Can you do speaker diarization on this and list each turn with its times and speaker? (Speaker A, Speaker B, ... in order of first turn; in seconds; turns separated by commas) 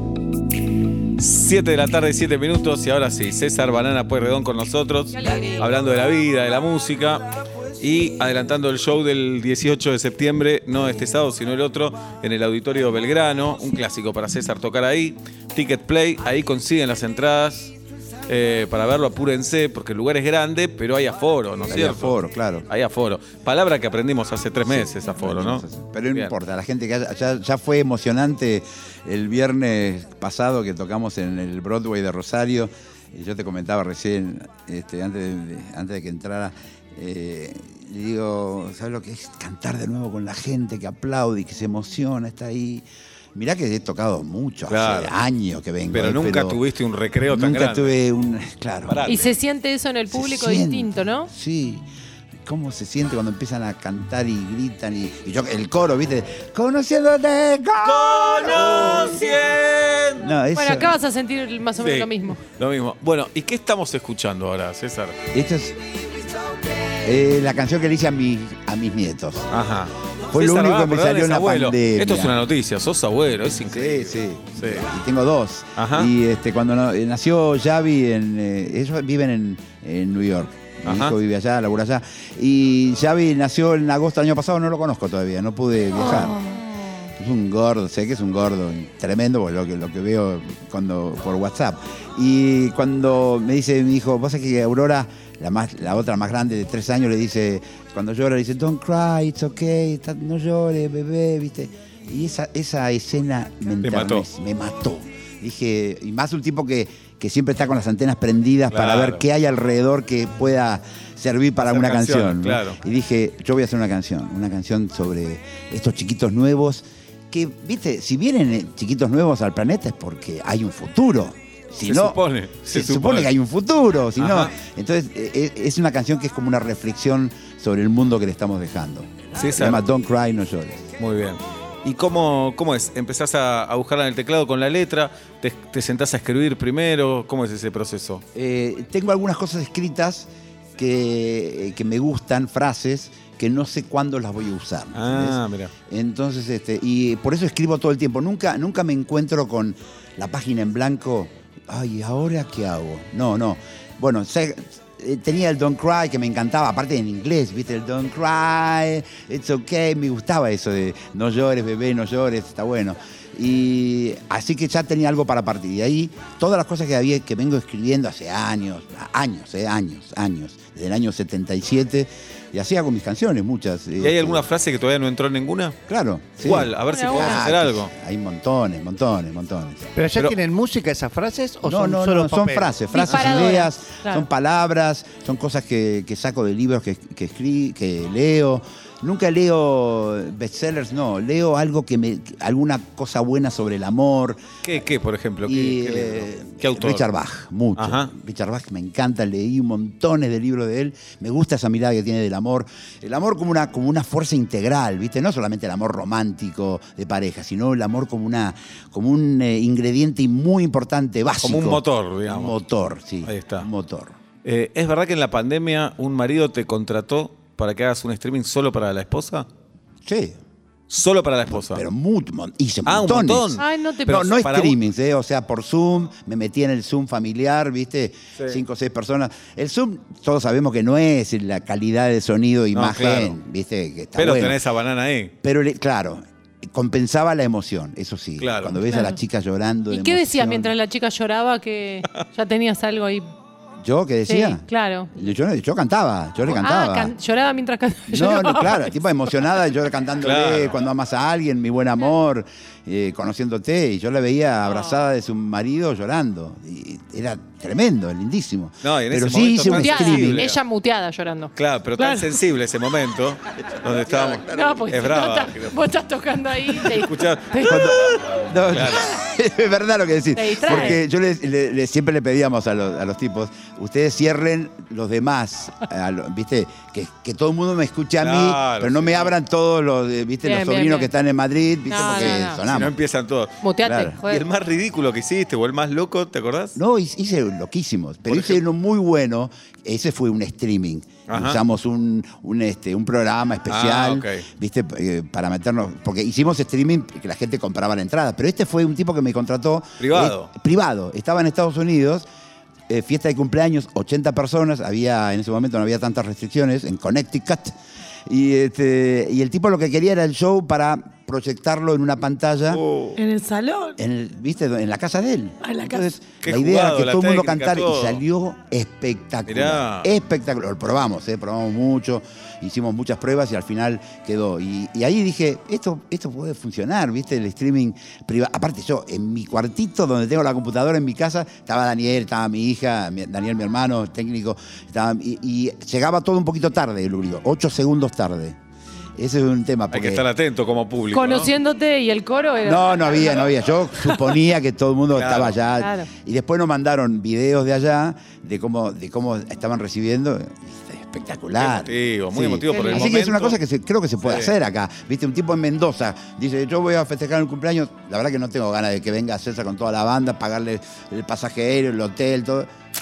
Speaker A: 1.2-7.2, Speaker B: 5.2-5.6, Speaker A: 7.8-17.7, Speaker A: 18.3-22.2, Speaker C: 21.7-22.7, Speaker A: 22.7-26.3, Speaker C: 24.7-46.6, Speaker A: 44.7-45.1, Speaker A: 45.9-47.9, Speaker C: 47.3-49.0, Speaker A: 48.9-49.3, Speaker B: 49.1-51.3, Speaker C: 50.1-51.9, Speaker C: 52.5-59.2, Speaker A: 57.8-60.3, Speaker C: 60.2-61.0, Speaker B: 60.5-62.4, Speaker A: 61.8-65.2, Speaker C: 65.3-65.8, Speaker C: 67.0-69.5, Speaker A: 69.5-74.9, Speaker C: 70.3-72.4, Speaker C: 73.7-86.4, Speaker A: 75.8-76.1, Speaker A: 80.8-81.2, Speaker D: 86.0-86.6, Speaker C: 87.2-130.9, Speaker A: 103.8-104.3, Speaker A: 108.7-109.2, Speaker A: 111.7-112.8, Speaker A: 121.8-123.3, Speaker A: 124.2-124.5, Speaker A: 129.3-129.8, Speaker A: 131.0-138.2, Speaker C: 138.3-174.5, Speaker A: 144.9-145.7, Speaker A: 174.0-175.8, Speaker C: 175.9-179.9, Speaker A: 176.4-177.9, Speaker B: 176.9-177.5, Speaker E: 180.0-182.7, Speaker C: 181.6-194.4, Speaker B: 182.9-184.2, Speaker A: 194.6-197.1, Speaker C: 195.4-214.2, Speaker A: 197.8-198.1, Speaker A: 211.4-212.6, Speaker A: 213.2-213.7, Speaker A: 214.4-219.5, Speaker C: 220.1-220.4, Speaker A: 220.9-221.8, Speaker C: 221.5-234.6, Speaker A: 222.9-224.8, Speaker B: 223.6-224.3, Speaker A: 232.7-233.4, Speaker A: 234.2-235.3, Speaker C: 235.4-240.7, Speaker A: 238.4-238.8, Speaker B: 239.9-243.2, Speaker C: 243.8-247.1, Speaker B: 244.3-245.1, Speaker B: 246.5-248.9, Speaker C: 248.1-260.5, Speaker A: 250.2-250.8, Speaker B: 254.7-255.0, Speaker A: 258.8-260.6, Speaker B: 259.6-262.4, Speaker A: 261.6-265.8, Speaker C: 264.1-264.8, Speaker B: 264.5-267.9, Speaker A: 266.9-267.8, Speaker C: 267.6-282.9, Speaker A: 268.7-269.1, Speaker B: 270.4-271.0, Speaker A: 278.2-279.3, Speaker B: 280.4-281.1, Speaker B: 281.9-282.6, Speaker A: 282.3-283.6, Speaker B: 283.6-284.4, Speaker C: 283.8-284.2, Speaker A: 284.2-286.8, Speaker C: 286.8-302.3, Speaker A: 288.3-288.6, Speaker A: 291.3-291.6, Speaker A: 293.7-294.5, Speaker A: 300.0-300.5, Speaker C: 302.9-307.8, Speaker C: 308.3-312.8, Speaker A: 312.7-313.2, Speaker D: 313.2-314.0, Speaker C: 314.0-338.6, Speaker D: 315.6-316.1, Speaker A: 316.4-318.2, Speaker A: 319.5-320.1, Speaker C: 339.2-340.3, Speaker A: 339.9-341.5, Speaker B: 341.1-343.4, Speaker C: 342.6-362.7, Speaker A: 345.1-345.6, Speaker B: 345.8-346.1, Speaker A: 351.6-353.6, Speaker B: 352.7-353.1, Speaker A: 354.2-354.5